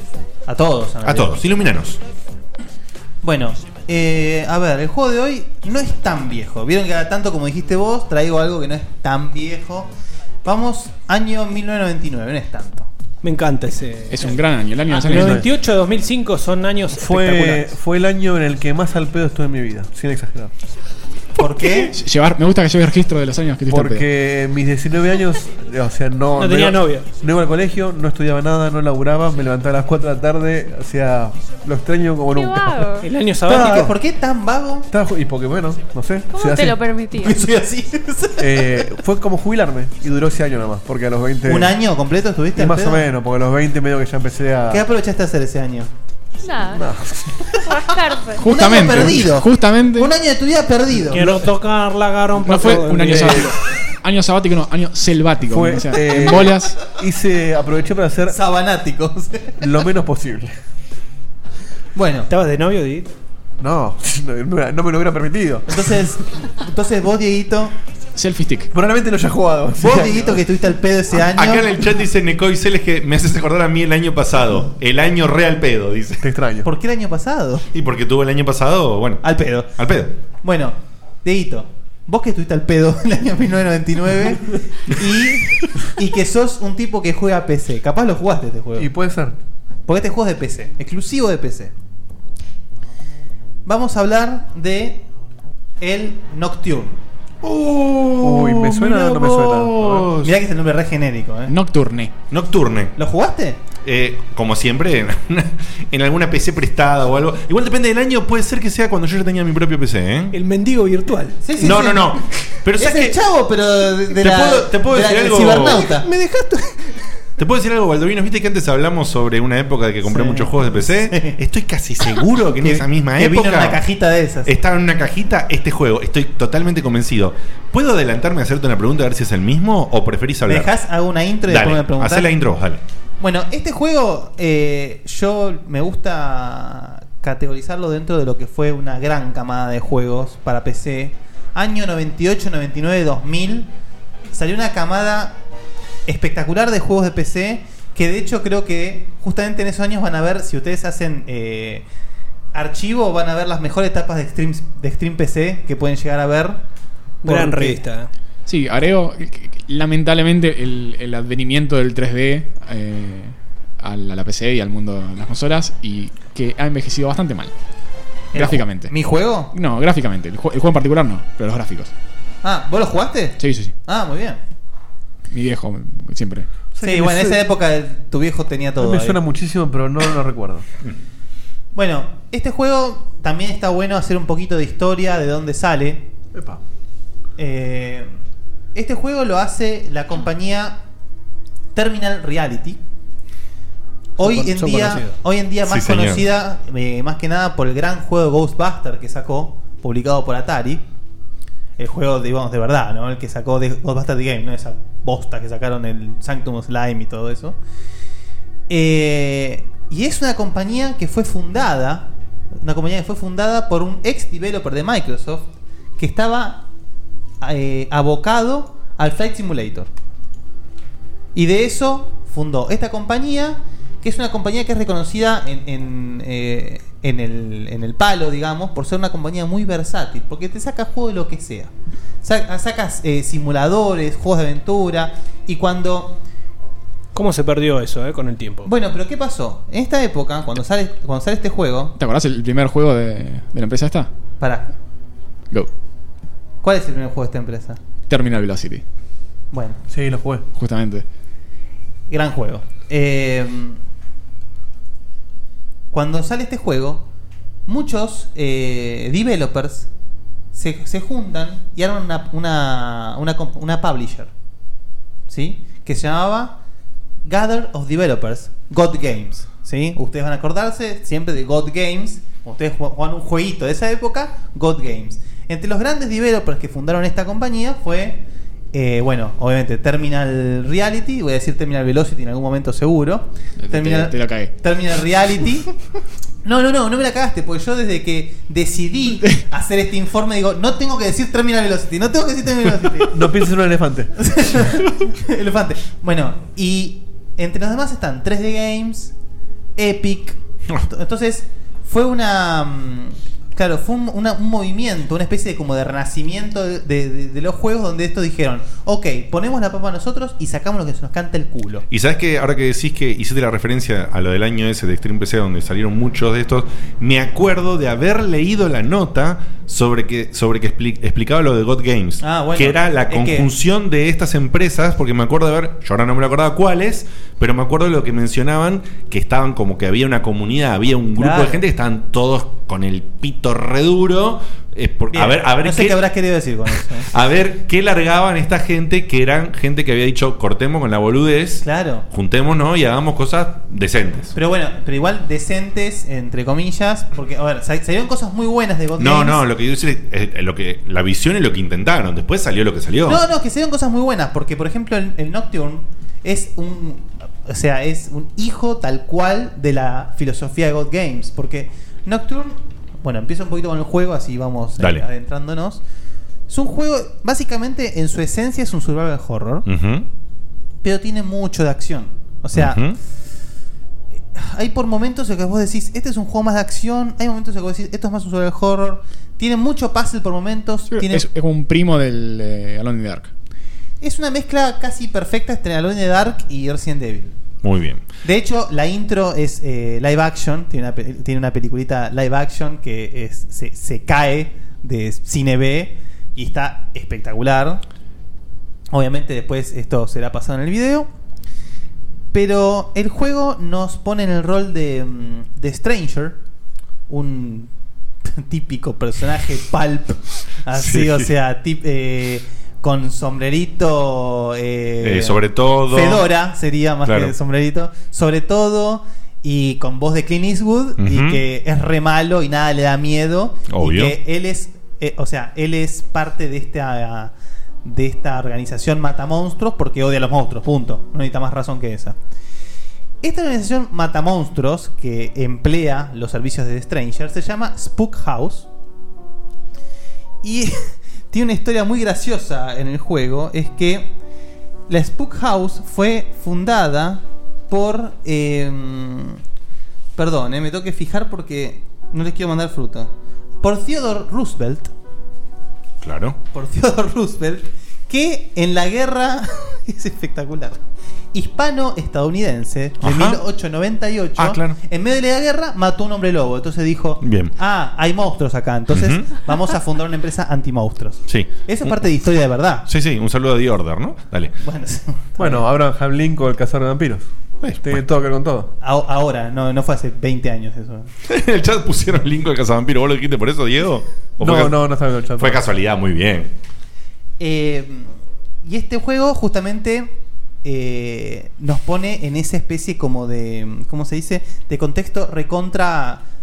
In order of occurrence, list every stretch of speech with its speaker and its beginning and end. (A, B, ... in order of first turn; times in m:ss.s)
0:00.5-0:01.4 A
0:01.0-0:02.0 B
0:03.2-0:09.9 A
0:10.4-0:12.9 A
0:13.2-0:14.3 C
0:14.1-0:15.4 D
0:14.9-0:17.7 C
0:15.1-0:15.4 E
0:17.0-0:20.5 E
0:21.4-0:21.9 A
0:21.8-0:24.0 D
0:23.7-0:33.0 E
0:26.4-0:27.0 C
0:32.3-0:33.1 F
0:33.0-0:33.9 C
0:33.5-0:34.9 A
0:34.9-0:36.8 E
0:36.3-0:37.4 F
0:37.2-0:38.8 A
0:38.4-0:41.7 E
0:41.5-0:43.0 A
0:42.6-0:44.8 E
0:44.7-0:45.9 A
0:46.4-0:46.8 F
0:46.7-0:47.4 E
0:47.6-0:48.4 F
0:48.4-0:51.3 A
0:48.4-0:50.1 D
0:51.1-0:53.5 C
0:52.4-0:56.7 D
0:53.1-0:53.5 E
0:55.5-0:58.4 E
0:58.3-0:59.6 A
0:59.6-1:00.5 E
1:01.9-1:02.3 A
1:02.3-1:03.1 C
1:03.6-1:05.7 E
1:05.7-1:07.7 A
1:08.2-1:08.7 D
1:08.7-1:10.4 E
1:09.8-1:11.7 A
1:11.3-1:16.2 B
1:16.2-1:16.7 E
1:16.6-1:17.7 A
1:17.7-1:19.2 B
1:19.2-1:19.7 A
1:19.8-1:20.1 B
1:20.4-1:28.9 A
1:28.8-1:29.4 E
1:29.9-1:31.7 A
1:33.6-1:35.0 A
1:35.8-1:37.0 A
1:37.4-1:40.3 B
1:38.2-1:40.1 E
1:40.2-1:41.5 A
1:41.5-1:42.1 D
1:42.3-1:42.9 B
1:43.0-1:43.6 A
1:43.8-1:50.3 B
1:50.3-1:51.4 C
1:51.4-1:52.2 A
1:51.6-1:53.2 B
1:52.8-1:56.1 A
1:54.2-1:55.9 B
1:56.0-1:57.0 C
1:57.4-2:03.8 B
2:00.1-2:01.4 A
2:02.6-2:04.5 A
2:04.4-2:10.7 B
2:10.5-2:12.3 A
2:11.5-2:12.8 B
2:13.2-2:23.7 A
2:24.3-2:25.4 A
2:26.1-2:31.8 A
2:32.5-2:36.6 A
2:37.2-2:38.1 C
2:37.2-2:37.8 A
2:38.5-2:47.5 D
2:48.3-2:49.5 A
2:48.3-2:48.9 D
2:49.5-2:51.9 D
2:52.4-2:54.4 A
2:53.4-2:53.7 D
2:55.3-2:56.5 D
2:56.7-2:57.4 E
2:56.8-2:59.2 A
2:58.8-3:00.6 E
3:01.7-3:06.0 A
3:06.3-3:06.6 E
3:07.4-3:08.1 A
3:08.7-3:10.8 A
3:11.7-3:12.8 A
3:14.2-3:20.8 A
3:14.2-3:15.1 C
3:15.6-3:16.2 B
3:21.8-3:27.6 A
3:28.7-3:36.6 A
3:37.4-3:39.9 A
3:41.3-3:51.7 A
3:52.2-3:56.2 A
3:57.1-3:58.7 C
3:58.6-4:01.9 A
4:02.0-4:04.1 D
4:04.4-4:04.7 A
4:06.6-4:07.8 A
4:08.1-4:08.8 D
4:09.5-4:09.8 A
4:09.9-4:10.4 E
4:10.5-4:11.0 D
4:12.1-4:13.8 A
4:15.9-4:17.0 A
4:17.7-4:19.9 A
4:20.5-4:24.3 A
4:25.3-4:26.6 A
4:27.2-4:38.2 A
4:38.7-4:45.7 A
4:43.6-4:44.5 D
4:46.4-4:53.1 A
4:53.1-4:54.7 E
4:54.2-4:59.1 A
4:59.8-5:11.8 A
5:11.9-5:36.0 B
5:22.2-5:23.5 A
5:31.2-5:31.6 A
5:35.1-5:37.1 A
5:37.1-5:44.3 B
5:41.6-5:42.0 A
5:44.3-5:49.4 A
5:49.0-5:53.2 B
5:53.0-6:05.8 A
6:04.8-6:05.0 B
6:06.5-6:09.6 A
6:09.6-6:10.1 B
6:10.8-6:12.8 A
6:12.5-6:13.0 B
6:14.3-6:21.3 A
6:20.9-6:23.3 D
6:24.0-6:27.4 A
6:27.6-6:28.0 B
6:28.2-6:37.8 A
6:38.9-6:41.1 A
6:42.3-6:46.4 A
6:47.1-6:47.7 A
6:48.3-7:07.3 A
6:50.7-6:51.3 B
6:55.0-6:56.2 B
6:57.0-6:57.3 B
7:01.0-7:01.4 B
7:03.7-7:04.2 B
7:07.8-7:12.2 A
7:13.2-7:18.7 A
7:20.4-7:24.1 A
7:24.9-7:29.4 A
7:30.2-7:33.1 A
7:33.6-7:34.9 A
7:36.0-7:36.4 B
7:36.5-7:40.8 A
7:41.3-7:52.8 A
7:43.0-7:43.4 B
7:44.4-7:44.8 B
7:47.2-7:47.5 B
7:48.9-7:49.3 B
7:51.3-7:51.9 B
7:52.9-7:54.5 B
7:54.6-7:55.6 A
7:55.4-7:57.3 E
7:57.6-7:58.0 B
7:57.8-7:58.7 E
7:58.8-8:01.1 A
8:01.2-8:04.8 B
8:04.4-8:05.6 E
8:05.4-8:06.5 B
8:07.4-8:08.1 A
8:08.6-8:10.1 A
8:10.6-8:16.2 A